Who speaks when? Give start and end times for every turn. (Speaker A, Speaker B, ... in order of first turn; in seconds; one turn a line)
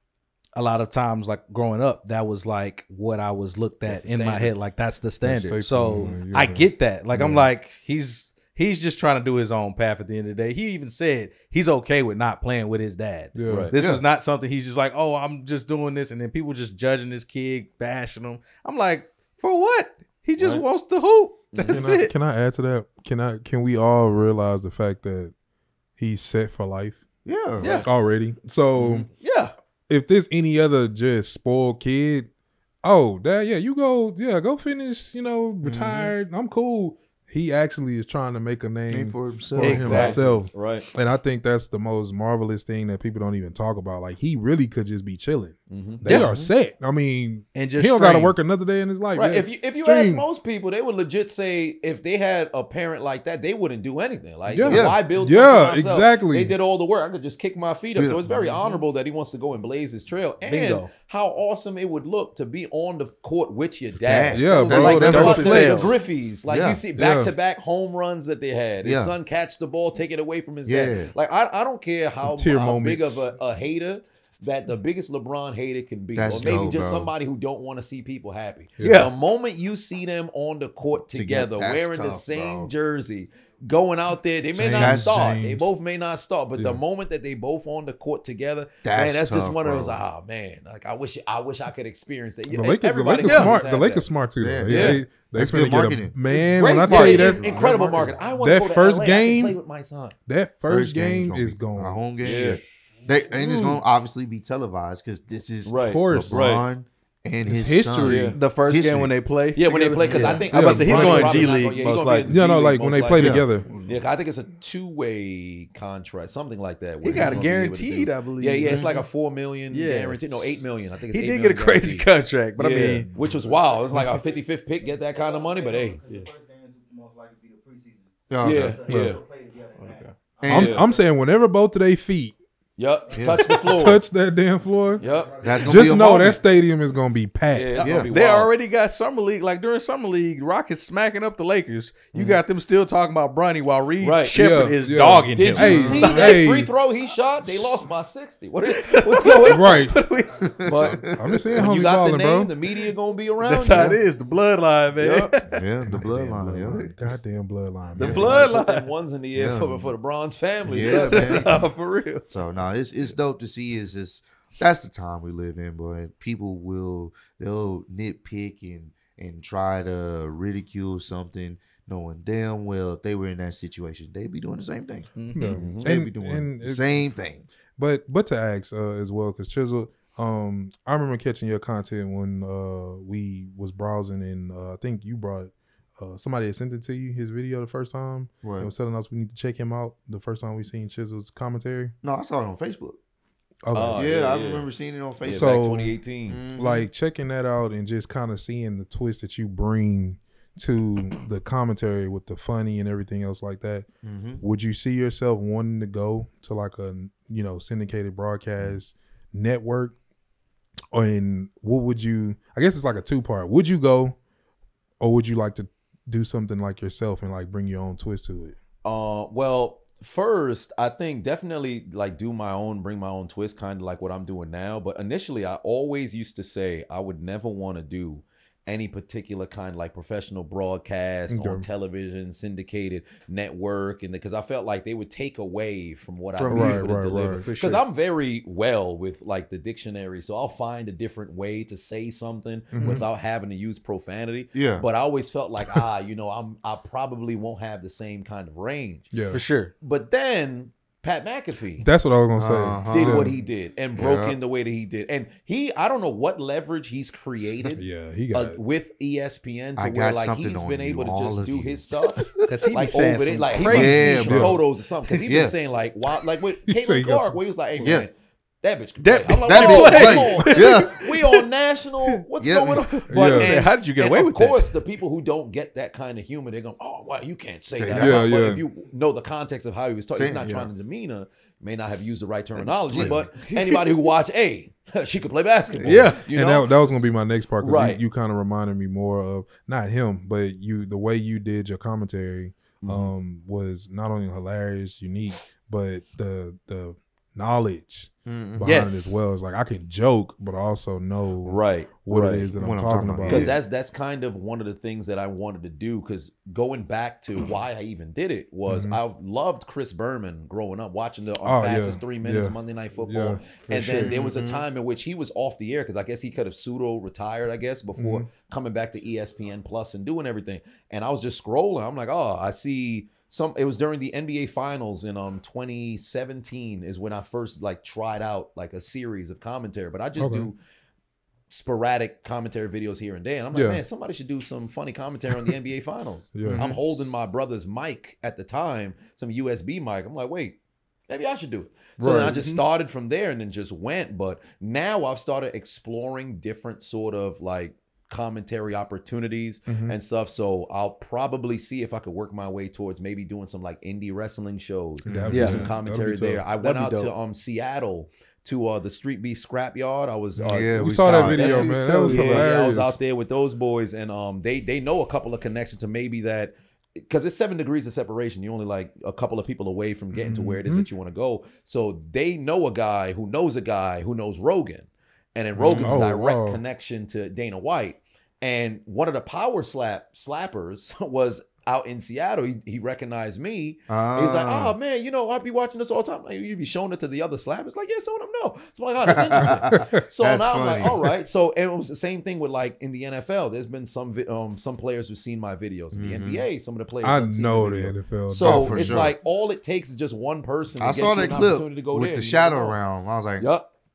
Speaker A: 0.6-22.1
Speaker B: 3.8-4.5
Speaker C: 5.2-7.5
Speaker C: 13.3-13.7
Speaker B: 13.5-13.8
Speaker D: 13.7-14.0
Speaker B: 20.4-20.6
Speaker B: 21.5-21.8
Speaker C: 21.6-25.3
Speaker C: 26.0-27.0
Speaker D: 27.2-27.7
Speaker B: 27.6-27.9
Speaker A: 27.6-27.9
Speaker C: 27.8-29.1
Speaker A: 29.2-29.5
Speaker C: 29.9-32.3
Speaker C: 32.8-50.2
Speaker D: 35.6-36.1
Speaker D: 38.9-40.2
Speaker A: 39.6-40.2
Speaker B: 39.8-40.9
Speaker B: 45.7-46.0
Speaker A: 46.0-46.3
Speaker D: 46.1-46.5
Speaker A: 47.5-48.4
Speaker B: 49.1-94.1
Speaker C: 54.5-56.5
Speaker D: 54.6-55.0
Speaker D: 58.0-58.5
Speaker A: 60.4-60.9
Speaker D: 63.9-65.7
Speaker C: 64.3-65.9
Speaker A: 64.4-66.0
Speaker D: 66.5-66.8
Speaker C: 66.9-67.3
Speaker D: 68.8-69.1
Speaker D: 70.6-71.1
Speaker C: 72.2-73.3
Speaker D: 76.1-77.1
Speaker C: 78.8-79.1
Speaker A: 78.8-79.1
Speaker D: 81.1-82.7
Speaker C: 84.5-85.7
Speaker D: 84.7-85.4
Speaker D: 88.8-90.0
Speaker C: 92.5-97.8
Speaker A: 93.2-93.6
Speaker D: 94.4-98.2
Speaker B: 94.7-95.0
Speaker B: 96.3-100.2
Speaker C: 98.4-99.6
Speaker C: 100.3-102.6
Speaker D: 100.7-109.1
Speaker B: 102.2-102.6
Speaker C: 103.3-103.8
Speaker B: 105.7-106.6
Speaker C: 105.8-106.5
Speaker C: 107.5-108.4
Speaker B: 108.0-108.3
Speaker A: 108.3-112.3
Speaker B: 109.5-126.1
Speaker C: 110.5-111.5
Speaker C: 112.3-113.7
Speaker D: 113.2-113.4
Speaker A: 113.2-114.0
Speaker A: 117.0-119.0
Speaker D: 117.1-117.5
Speaker A: 119.7-123.1
Speaker E: 123.2-130.8
Speaker D: 128.3-128.8
Speaker B: 128.4-129.2
Speaker C: 128.9-129.1
Speaker A: 129.8-130.1
Speaker D: 130.4-130.8
Speaker C: 130.5-132.4
Speaker B: 130.5-130.8
Speaker B: 132.8-134.0
Speaker D: 133.1-133.4
Speaker C: 133.4-135.0
Speaker B: 135.0-135.6
Speaker E: 135.0-135.6
Speaker D: 135.4-136.4
Speaker C: 135.6-137.7
Speaker B: 137.5-138.5
Speaker D: 137.8-138.1
Speaker A: 137.8-146.4
Speaker B: 144.0-144.4
Speaker C: 144.3-146.7
Speaker B: 145.3-149.8
Speaker D: 145.6-146.2
Speaker A: 148.7-150.7
Speaker C: 149.5-150.1
Speaker D: 150.5-151.4
Speaker B: 150.6-154.0
Speaker C: 150.9-152.5
Speaker A: 153.4-155.6
Speaker B: 155.0-155.4
Speaker D: 155.5-156.9
Speaker C: 155.9-158.4
Speaker A: 158.0-158.9
Speaker B: 158.0-161.6
Speaker D: 158.0-158.3
Speaker D: 159.3-159.9
Speaker D: 160.6-161.6
Speaker A: 160.8-162.2
Speaker D: 162.3-175.1
Speaker A: 175.2-175.4
Speaker C: 175.3-177.0
Speaker B: 175.4-175.8
Speaker D: 175.8-177.4
Speaker C: 177.8-191.9
Speaker D: 188.4-188.7
Speaker D: 192.0-193.0
Speaker C: 193.6-194.1
Speaker B: 193.7-194.7
Speaker D: 193.9-195.6
Speaker B: 195.2-196.4
Speaker C: 195.3-195.9
Speaker D: 196.3-196.8
Speaker C: 196.6-203.9
Speaker D: 204.0-204.4
Speaker C: 204.4-209.9
Speaker C: 210.9-214.2
Speaker C: 215.0-218.5
Speaker B: 218.8-249.1
Speaker C: 231.3-231.7
Speaker A: 236.3-237.8
Speaker C: 236.5-237.5
Speaker C: 242.7-243.0
Speaker D: 244.5-244.8
Speaker C: 249.1-249.4
Speaker A: 249.3-249.7
Speaker B: 249.8-251.9
Speaker C: 251.8-253.3
Speaker D: 252.3-253.3
Speaker B: 252.9-287.0
Speaker D: 253.9-254.4
Speaker C: 257.8-258.6
Speaker D: 259.8-262.3
Speaker A: 262.4-264.3
Speaker D: 263.6-265.5
Speaker C: 263.8-264.6
Speaker C: 266.7-267.4
Speaker D: 267.8-268.1
Speaker A: 269.0-271.4
Speaker D: 269.4-270.9
Speaker D: 272.4-272.8
Speaker A: 272.7-274.7
Speaker C: 273.1-273.5
Speaker D: 277.7-278.2
Speaker C: 277.9-278.6
Speaker D: 280.1-280.5
Speaker C: 280.4-280.7
Speaker D: 282.6-283.3
Speaker A: 283.5-283.8
Speaker A: 285.8-286.2
Speaker C: 285.8-303.6
Speaker B: 287.6-288.0
Speaker B: 292.8-293.1
Speaker D: 298.2-298.7
Speaker A: 298.6-299.2
Speaker B: 301.4-302.5
Speaker D: 302.6-303.6
Speaker B: 303.2-330.6
Speaker C: 308.7-309.0
Speaker C: 311.4-314.2
Speaker D: 313.9-314.6
Speaker C: 318.0-318.3
Speaker C: 330.2-330.5
Speaker B: 331.5-340.6
Speaker C: 333.5-333.8
Speaker C: 336.3-336.6
Speaker D: 336.4-336.8
Speaker B: 341.1-402.8
Speaker C: 342.0-342.5
Speaker A: 342.3-342.6
Speaker C: 349.7-349.9
Speaker D: 355.1-355.7
Speaker C: 355.1-356.4
Speaker A: 355.3-355.6
Speaker A: 356.6-357.1
Speaker D: 360.4-361.7
Speaker C: 360.7-363.0
Speaker A: 362.0-362.5
Speaker C: 370.1-370.9
Speaker D: 375.6-376.0
Speaker C: 375.8-376.6
Speaker D: 383.9-384.8
Speaker D: 389.1-391.0
Speaker D: 395.9-396.4
Speaker C: 397.0-399.1
Speaker D: 398.4-399.1
Speaker D: 400.8-403.5
Speaker B: 403.4-403.7